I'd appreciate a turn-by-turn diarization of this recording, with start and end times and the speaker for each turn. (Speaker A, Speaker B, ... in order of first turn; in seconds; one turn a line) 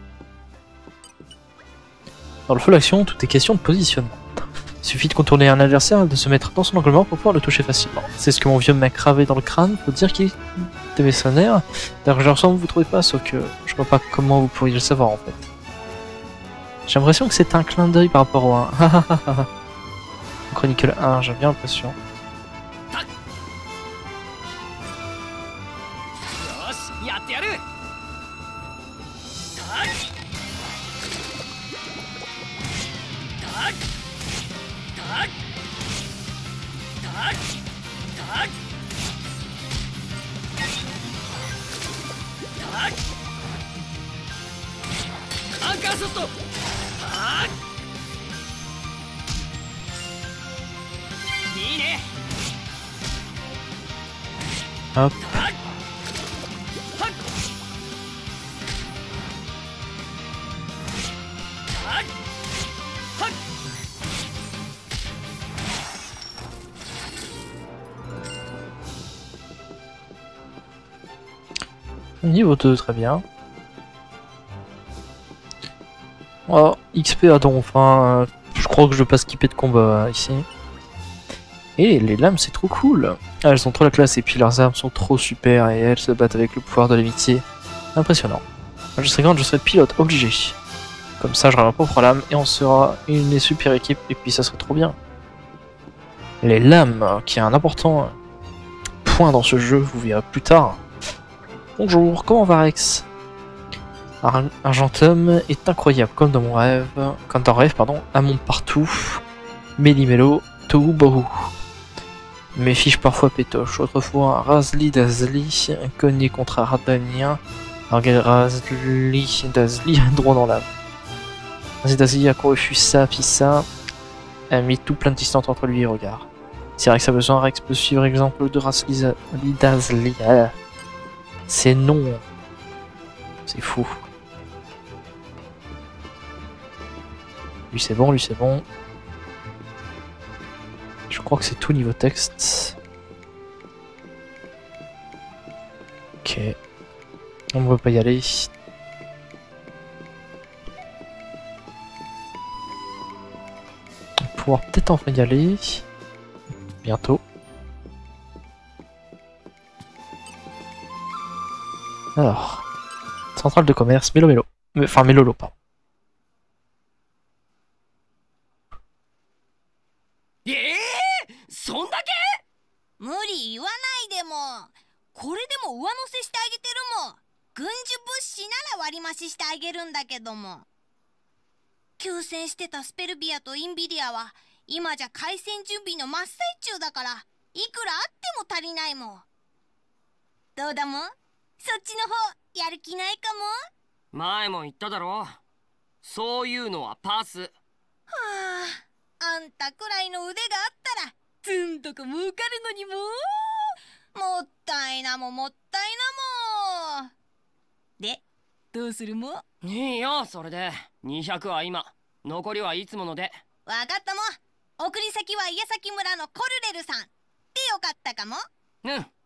Speaker A: 2.5-4.2
Speaker A: 4.8-15.5
Speaker A: 16.9-19.5
Speaker A: 20.5-21.9
Speaker B: 26.4-27.6
Speaker B: 29.5-29.9
Speaker B: 33.4-33.8
Speaker B: 34.9-35.3
Speaker B: 37.0-37.4
Speaker B: 38.1-38.5
Speaker B: 42.6-43.0
Speaker B: 45.6-46.3
Speaker B: 47.0-47.5
Speaker B: 51.5-52.1
Speaker A: 54.9-55.5
Speaker B: 55.2-55.6
Speaker B: 61.7-62.1
Speaker A: 72.2-73.2
Speaker A: 76.5-80.5
Speaker A: 81.8-88.4
Speaker A: 89.0-90.5
Speaker A: 91.2-95.0
Speaker A: 96.4-98.1
Speaker A: 99.0-100.8
Speaker A: 101.8-103.1
Speaker A: 104.2-109.2
Speaker A: 109.8-111.5
Speaker A: 112.5-120.7
Speaker A: 121.8-123.7
Speaker A: 124.5-130.5
Speaker A: 131.5-132.2
Speaker A: 133.5-134.0
Speaker A: 137.7-138.6
Speaker A: 141.1-142.8
Speaker A: 146.2-146.6
Speaker A: 147.5-148.5
Speaker A: 154.2-155.8
Speaker A: 156.8-157.2
Speaker A: 162.2-162.6
Speaker A: 163.3-165.5
Speaker B: 170.4-172.4
Speaker C: 173.0-180.7
Speaker C: 182.0-189.2
Speaker C: 190.6-193.5
Speaker B: 194.1-195.4
Speaker B: 196.0-197.5
Speaker C: 198.1-207.1
Speaker C: 208.7-209.4
Speaker B: 209.6-213.4
Speaker C: 213.7-218.4
Speaker B: 218.8-219.1